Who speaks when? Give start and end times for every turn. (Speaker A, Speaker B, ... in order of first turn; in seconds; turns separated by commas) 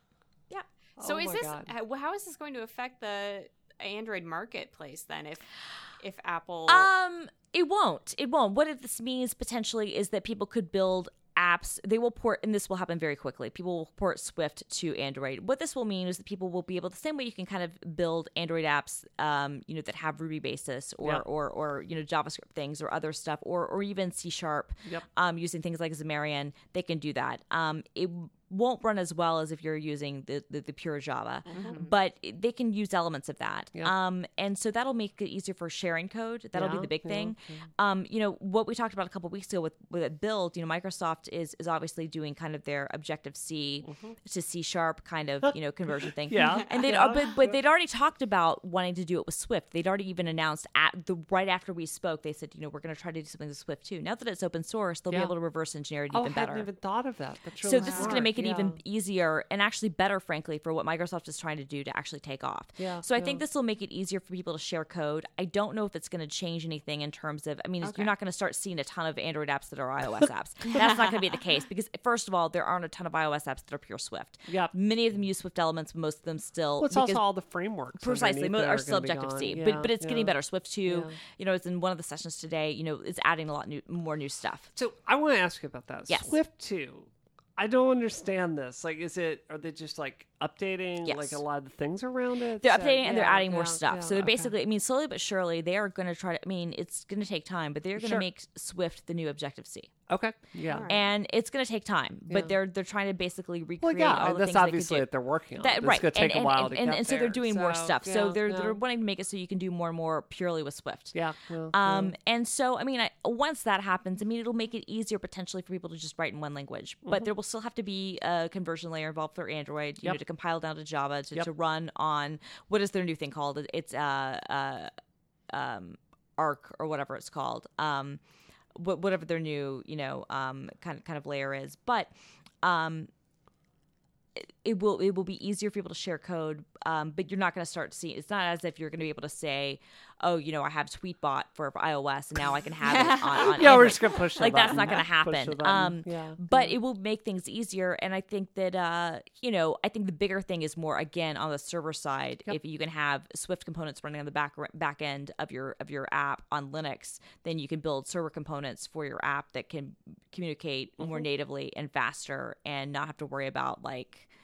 Speaker A: 0.5-6.9, Speaker B: 1.0-1.7, Speaker C: 6.7-56.7, Speaker B: 31.5-31.8, Speaker A: 31.5-31.9, Speaker B: 36.5-37.6, Speaker B: 43.8-44.1, Speaker B: 46.0-47.6, Speaker A: 46.3-46.9, Speaker B: 56.1-58.8, Speaker C: 57.6-77.2, Speaker A: 57.7-58.2, Speaker B: 62.8-63.4, Speaker A: 67.8-68.1, Speaker A: 70.7-71.0, Speaker B: 74.5-74.7, Speaker B: 76.8-80.3, Speaker C: 77.9-84.7, Speaker B: 80.9-81.2, Speaker B: 84.7-94.5, Speaker C: 86.1-86.3, Speaker C: 91.0-91.4, Speaker C: 92.6-99.9, Speaker B: 98.0-98.2, Speaker B: 100.1-100.9, Speaker A: 100.7-101.0, Speaker C: 100.9-105.1, Speaker B: 102.3-102.5, Speaker B: 103.8-108.8, Speaker C: 105.6-111.2, Speaker B: 111.1-112.1, Speaker C: 111.7-124.9, Speaker C: 125.5-128.2, Speaker C: 128.7-133.1, Speaker C: 134.3-164.3, Speaker A: 142.8-144.5, Speaker B: 143.4-146.7, Speaker B: 161.0-161.2